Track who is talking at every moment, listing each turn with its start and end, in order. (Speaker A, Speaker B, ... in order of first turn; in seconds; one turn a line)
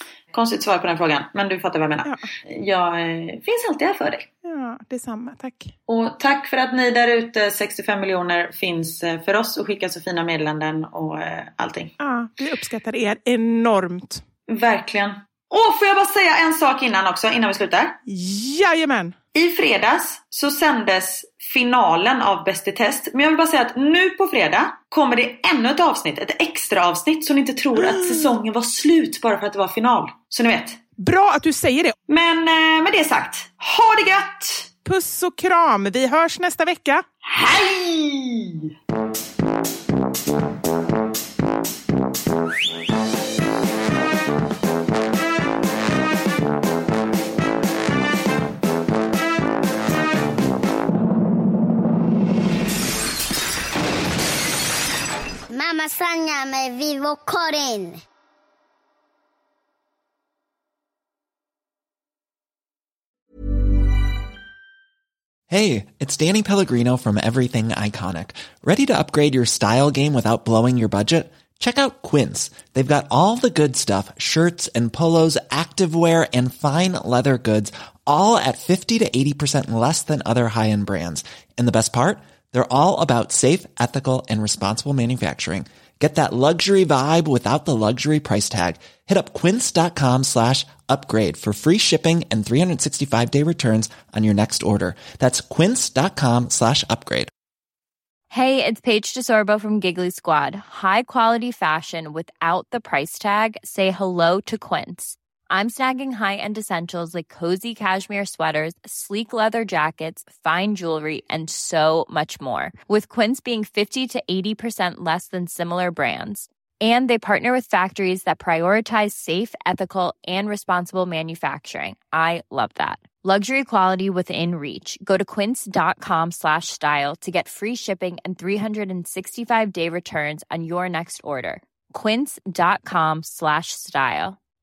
Speaker A: 0.3-4.3
Speaker B: 4.4-5.7
Speaker A: 5.9-11.9
Speaker B: 12.0-14.2
Speaker A: 14.5-18.0
Speaker B: 18.1-19.2
Speaker A: 19.3-30.8
Speaker B: 27.8-28.3
Speaker B: 31.0-31.9
Speaker A: 32.1-34.7
Speaker B: 34.9-37.0
Speaker A: 37.2-38.7
Speaker C: 55.5-58.0
Speaker D: 65.5-97.3
Speaker E: 98.3-134.4